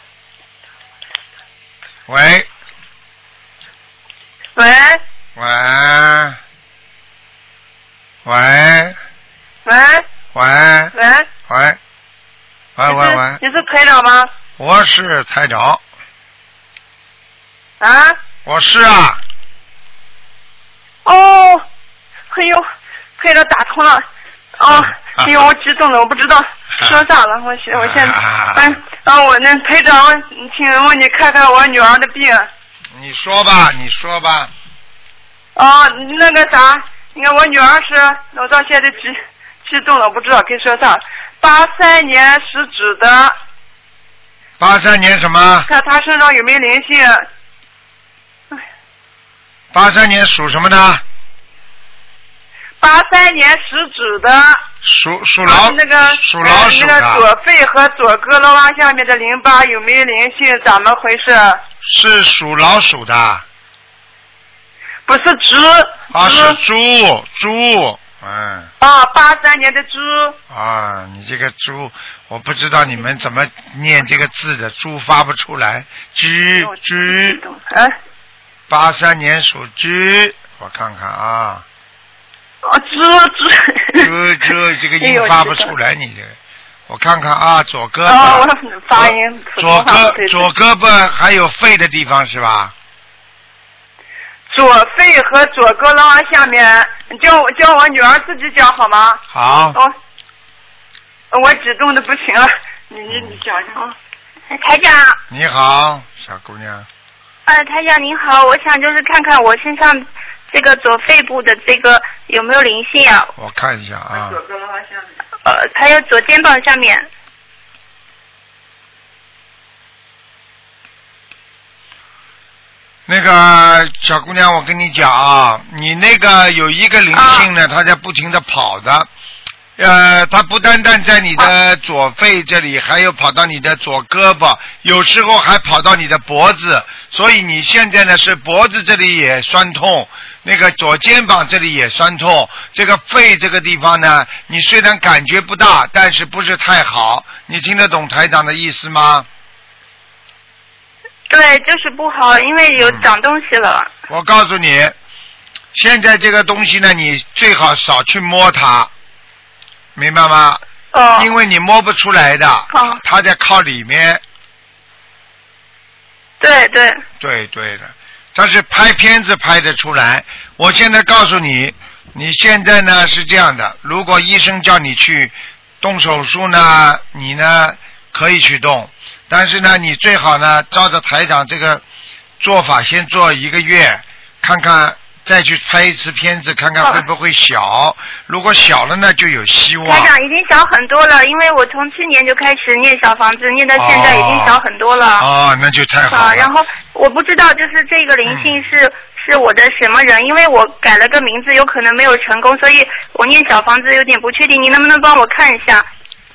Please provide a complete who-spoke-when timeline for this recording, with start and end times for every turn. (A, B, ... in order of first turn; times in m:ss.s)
0:02.1-0:02.5 A
0:04.6-0:05.0 B
0:05.4-0:06.4 A
0:08.2-0:09.0 A
0:09.7-0:10.1 B
0:10.3-0:11.0 A
0:11.0-0:11.3 B
0:11.5-0:11.8 A
0:12.8-0:13.4 A
0:12.9-0:14.3 B
0:14.6-0:15.8 A
0:17.8-0:18.2 B
0:18.4-0:19.2 A
0:21.0-0:21.6 B
0:22.3-0:22.6 B
0:23.2-0:24.0 B
0:24.6-0:32.5 B
0:24.8-0:25.3 A
0:27.7-0:28.8 A
0:32.9-0:34.5 A
0:35.6-0:43.4 B
0:44.6-0:45.7 A
0:45.7-0:47.3 B
0:49.7-0:51.0 A
0:52.8-0:54.6 B
0:54.8-0:57.3 A
0:55.4-1:01.6 B
1:01.8-1:03.4 A
1:05.1-1:06.6 B
1:06.1-1:08.7 A
1:08.8-1:10.4 B
1:10.5-1:17.4 A
1:16.6-1:18.0 B
1:18.7-1:21.6 A
1:22.6-1:24.1 B
1:24.0-1:26.4 A
1:25.0-1:25.7 B
1:26.9-1:32.7 A
1:28.1-1:30.5 B
1:34.5-1:39.2 B
1:39.3-1:39.8 A
1:41.3-1:43.9 B
1:43.1-1:43.4 A
1:44.5-1:45.2 C
1:45.3-1:46.9 A
1:47.5-1:53.3 C
1:53.4-1:54.4 A
1:54.4-1:54.8 B
1:55.4-1:57.1 C
2:03.1-2:09.1 A
2:07.2-2:07.5 C
2:09.8-2:29.3 A
2:31.3-2:33.9 C
2:32.8-2:33.1 A
2:34.1-2:35.0 A
2:35.7-2:38.9 A
2:40.0-2:40.6 A
2:40.9-2:41.3 C
2:41.2-2:44.2 A
2:42.7-2:43.0 C
2:46.4-2:47.0 C
2:47.2-3:01.8 A
3:02.4-3:10.1 A
3:09.8-3:15.3 C
3:13.8-3:14.6 A
3:15.2-3:16.5 A
3:16.1-3:25.9 C
3:18.3-3:18.7 A